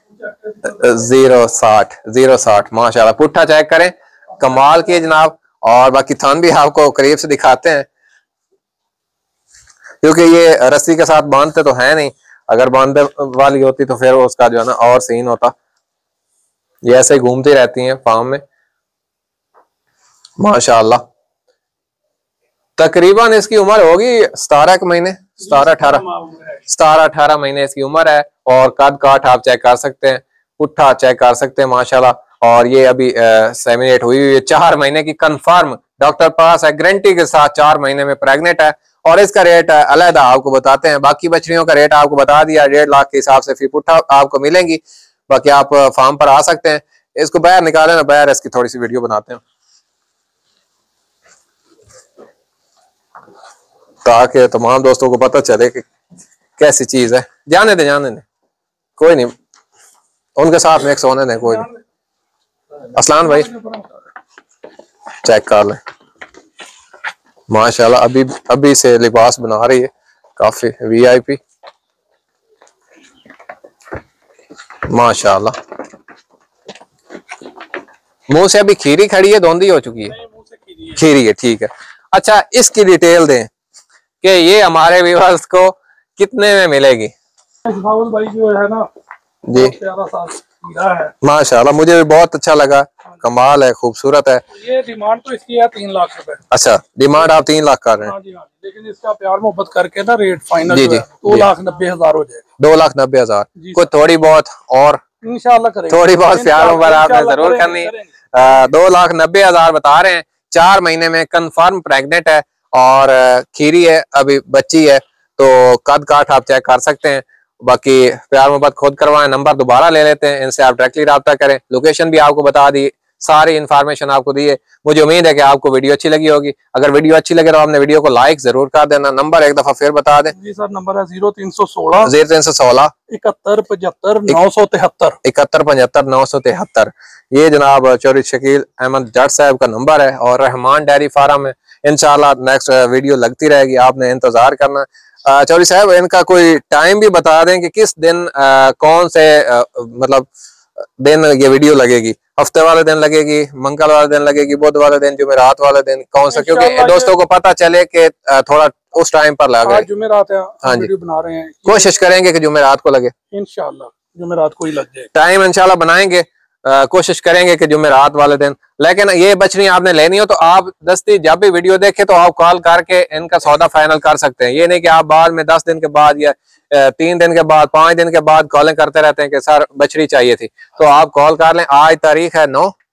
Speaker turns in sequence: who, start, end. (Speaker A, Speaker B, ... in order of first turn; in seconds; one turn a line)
Speaker A: 0.6-7.8
Speaker A: 10.0-15.5
Speaker A: 16.8-18.4
Speaker A: 20.4-21.0
Speaker A: 22.8-26.0
Speaker B: 25.4-26.6
Speaker A: 26.7-49.4
Speaker A: 54.0-55.8
Speaker A: 56.6-58.2
Speaker A: 59.0-59.3
Speaker A: 60.4-61.7
Speaker B: 61.4-61.8
Speaker A: 62.9-63.5
Speaker B: 63.1-63.9
Speaker A: 65.2-65.8
Speaker A: 67.5-71.4
Speaker A: 74.9-75.5
Speaker A: 78.3-80.1
Speaker B: 80.1-81.0
Speaker A: 81.0-83.5
Speaker A: 84.2-87.1
Speaker B: 87.7-88.9
Speaker A: 89.5-89.7
Speaker B: 89.5-91.1
Speaker A: 91.2-94.4
Speaker B: 94.5-96.4
Speaker A: 96.5-98.1
Speaker B: 98.0-102.4
Speaker A: 100.7-101.5
Speaker A: 102.6-105.0
Speaker B: 103.6-103.9
Speaker B: 105.2-108.6
Speaker A: 105.9-130.3
Speaker B: 130.3-132.1
Speaker A: 132.0-132.9
Speaker B: 133.1-135.2
Speaker A: 135.2-150.3
Speaker A: 151.0-159.8
Speaker B: 156.3-157.1
Speaker B: 159.6-162.0
Speaker A: 160.6-160.9
Speaker A: 161.7-163.1
Speaker B: 163.3-165.1
Speaker A: 165.1-182.7